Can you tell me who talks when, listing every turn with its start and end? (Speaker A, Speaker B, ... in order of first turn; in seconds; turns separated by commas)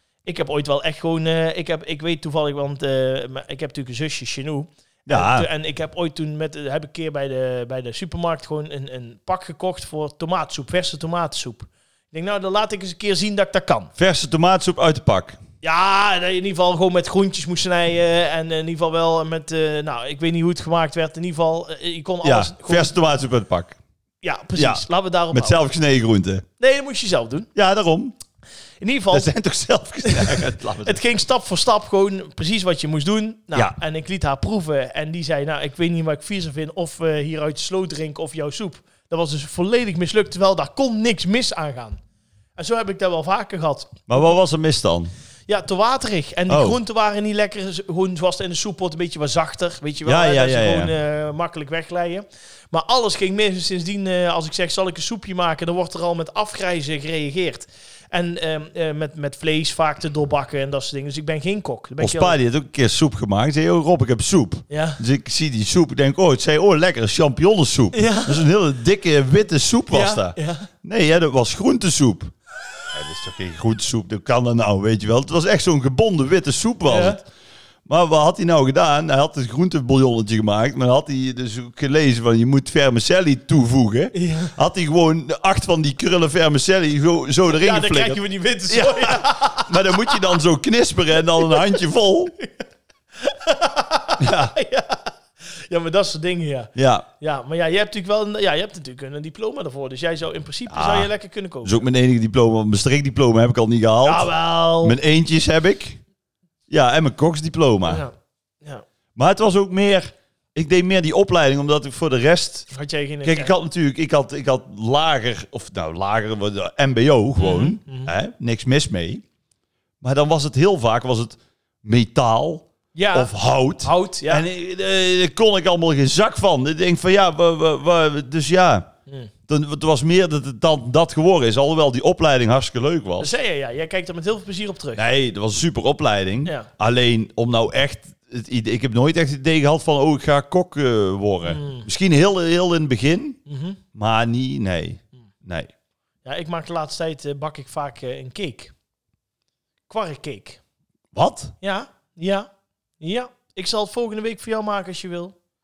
Speaker A: 0.2-13.9, Speaker B: 5.1-5.5, Speaker B: 14.0-15.4, Speaker A: 15.6-22.9, Speaker B: 22.2-23.8, Speaker A: 24.2-25.6, Speaker B: 24.6-26.4, Speaker A: 26.6-27.5, Speaker B: 27.5-28.1, Speaker A: 28.8-29.3, Speaker B: 29.1-31.0, Speaker A: 30.0-42.0, Speaker A: 42.6-44.3, Speaker B: 44.1-45.1, Speaker A: 45.5-62.4, Speaker B: 46.5-46.8, Speaker B: 50.0-50.9, Speaker B: 62.0-72.3, Speaker A: 64.7-65.0, Speaker A: 67.9-68.5, Speaker A: 69.9-70.7, Speaker B: 72.9-77.2, Speaker A: 76.9-77.2, Speaker B: 77.8-92.3, Speaker A: 84.1-84.5, Speaker A: 87.5-90.3, Speaker A: 93.2-95.1, Speaker B: 94.2-94.5, Speaker A: 95.7-101.8, Speaker B: 96.8-97.0, Speaker B: 100.7-101.1, Speaker B: 101.6-104.3, Speaker A: 104.0-105.0, Speaker B: 104.8-106.0, Speaker B: 106.7-108.0, Speaker A: 107.9-108.8, Speaker B: 109.2-112.7, Speaker A: 112.7-113.5, Speaker B: 113.2-119.2, Speaker A: 117.4-118.1, Speaker B: 120.0-128.9, Speaker A: 122.9-124.5, Speaker B: 129.5-133.3, Speaker A: 133.2-135.0, Speaker B: 134.9-143.4, Speaker A: 141.4-141.9, Speaker A: 143.5-143.8, Speaker B: 143.9-145.7, Speaker A: 146.2-148.7, Speaker A: 149.9-150.6, Speaker B: 151.1-151.5, Speaker A: 151.6-152.5, Speaker A: 153.0-155.3